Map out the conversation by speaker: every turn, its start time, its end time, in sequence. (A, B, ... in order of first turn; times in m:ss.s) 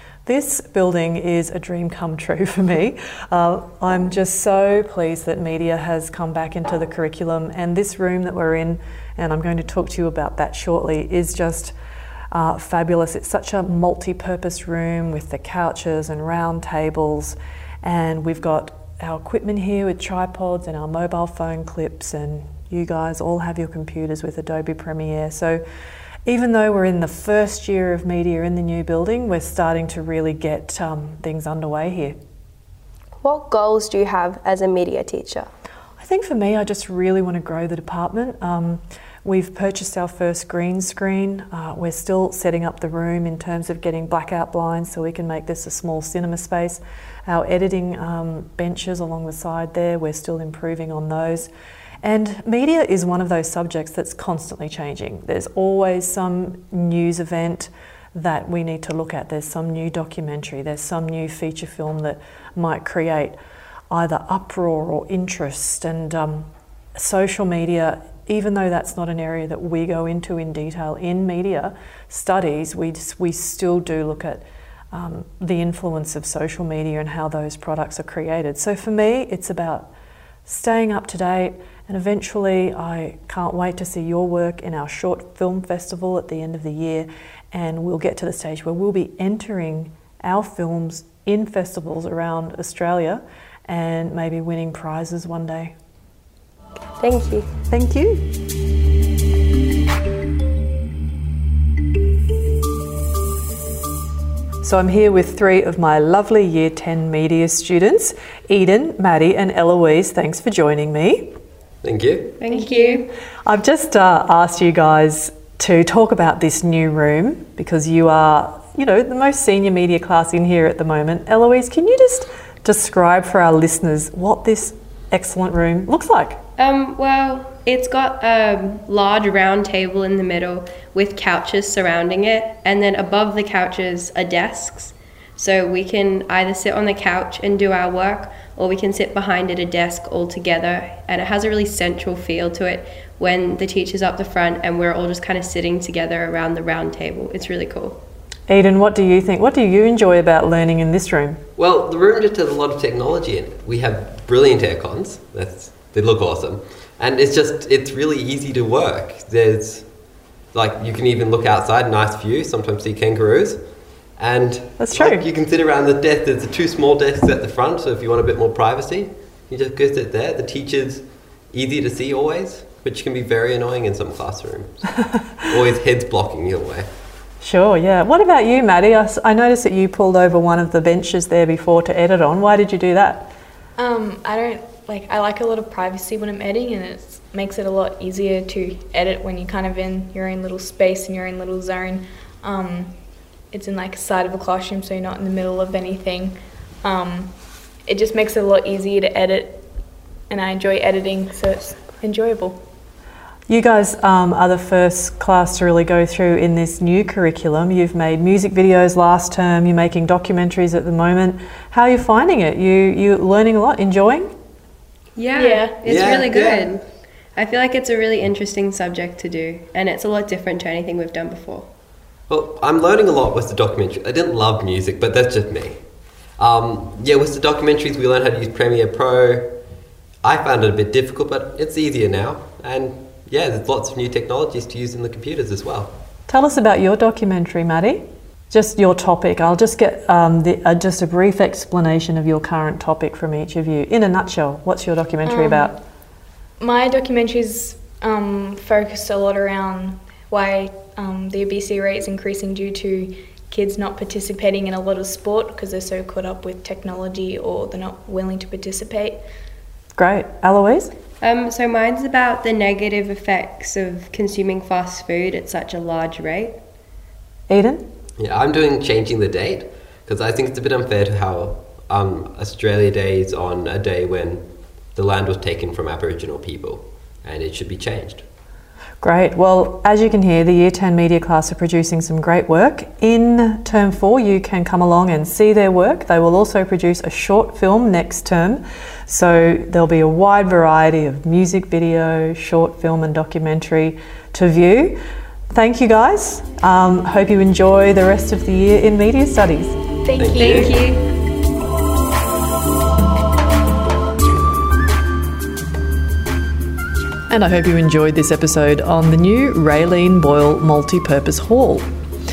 0:00.2-0:11.7 A
0:12.3-0:25.6 A
0:26.2-0:32.2 A
0:33.2-0:35.5 B
0:36.0-0:51.5 A
0:52.0-1:03.4 A
1:03.9-1:19.9 A
1:20.4-1:35.7 A
1:37.0-1:37.5 B
1:37.7-1:38.2 A
1:44.6-1:51.3 A
1:51.8-1:52.4 C
1:52.4-1:53.1 D
1:53.4-2:06.4 A
2:06.6-2:28.0 D
2:28.5-2:31.4 A
2:31.6-2:54.9 C
2:44.8-2:45.2 A
2:55.4-2:56.9 C
2:57.4-3:03.3 A
3:03.8-3:19.7 E
3:20.3-3:22.6 E
3:23.5-3:34.3 A
3:35.2-3:41.7 D
3:35.4-3:35.8 E
3:35.8-3:36.7 C
3:42.3-3:49.7 C
3:50.2-3:56.0 C
3:56.3-4:05.8 A
4:05.2-4:05.8 E
4:06.6-4:19.3 E
4:20.0-4:20.9 A
4:21.2-4:26.6 D
4:27.5-4:27.9 A
4:28.2-4:38.2 C
4:39.0-4:55.0 A
4:55.5-4:59.8 A
5:00.1-5:00.8 C
5:00.2-5:01.0 D
5:07.3-5:11.9 A